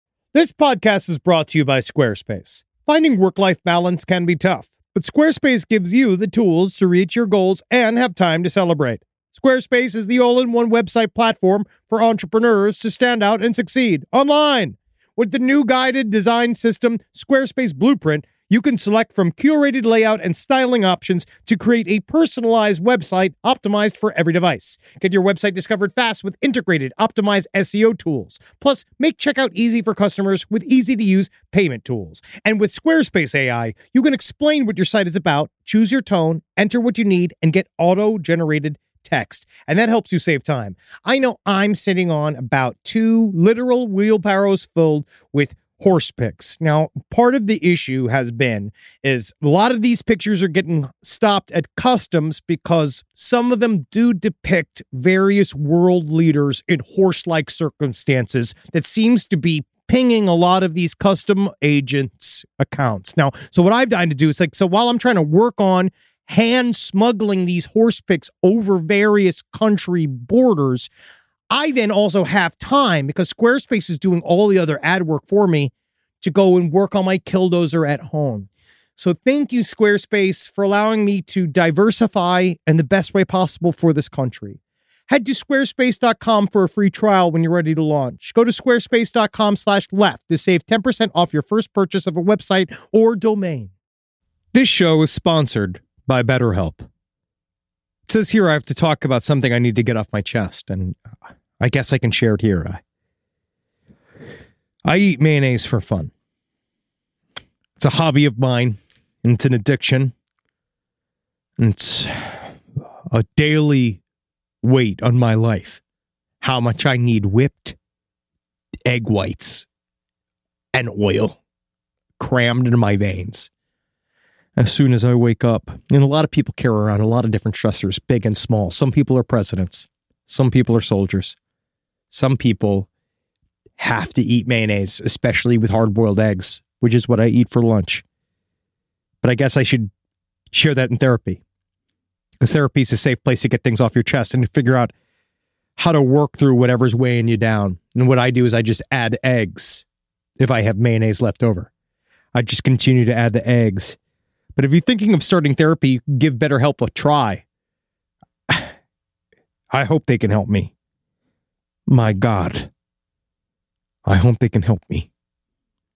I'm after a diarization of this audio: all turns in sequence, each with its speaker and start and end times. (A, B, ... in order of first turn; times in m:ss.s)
0:00.3-1:10.9 A
1:11.5-1:33.7 A
1:34.5-1:36.8 A
1:38.1-1:41.0 A
1:41.6-1:42.8 A
1:44.8-1:46.1 A
1:47.8-1:50.1 A
1:51.6-1:52.4 A
1:53.1-1:54.0 A
1:54.6-1:55.8 A
1:56.4-1:57.8 A
1:58.8-1:59.6 A
2:00.7-2:01.4 A
2:02.2-2:03.5 A
2:04.6-2:11.4 A
2:12.1-2:12.9 A
2:13.8-2:18.0 A
2:19.2-2:19.9 A
2:20.5-2:21.4 A
2:22.4-2:24.9 A
2:25.8-2:29.8 A
2:30.4-2:31.7 A
2:32.3-2:34.0 A
2:34.6-2:37.4 A
2:39.7-2:40.7 A
2:41.9-2:42.7 A
2:44.0-2:45.1 A